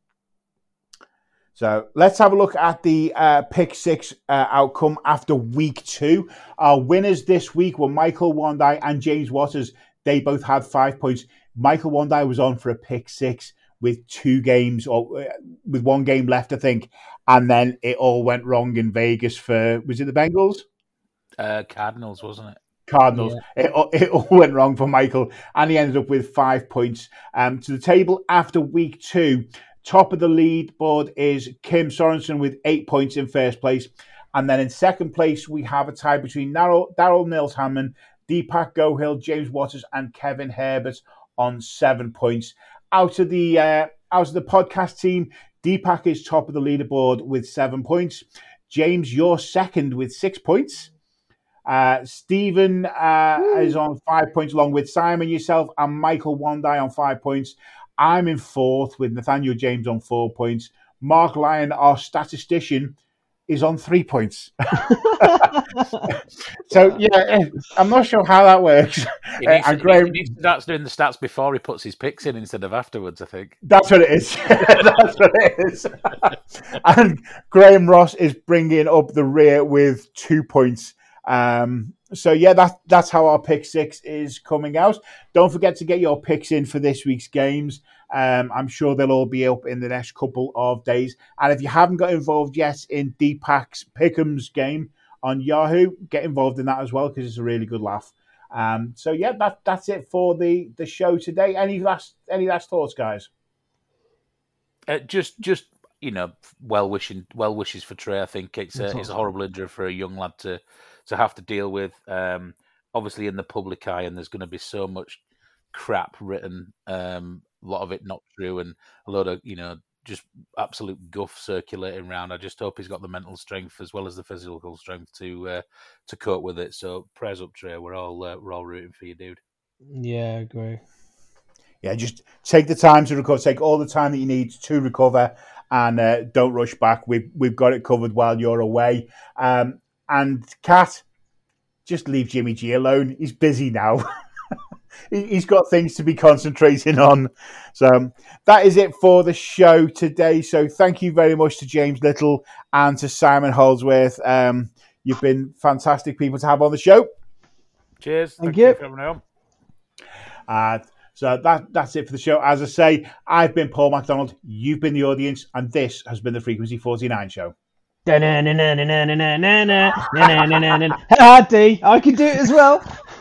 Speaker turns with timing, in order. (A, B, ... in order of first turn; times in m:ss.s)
0:01.6-0:20.6 A
0:21.4-0:22.6 B
0:22.9-0:50.9 A
0:23.1-0:23.4 C
0:51.7-1:03.0 A
1:03.5-1:05.5 A
1:05.0-1:05.4 C
1:06.0-1:10.3 A
1:09.4-1:13.6 B
1:13.6-1:43.3 A
1:44.9-1:55.2 B
1:48.8-1:49.1 C
1:55.7-2:09.4 B
2:09.9-2:10.8 C
2:11.8-2:21.0 A
2:21.9-2:24.1 A
2:25.1-2:37.1 A
2:38.0-2:39.2 B
2:38.4-2:38.8 C
2:40.5-2:47.5 A
2:48.1-2:52.9 C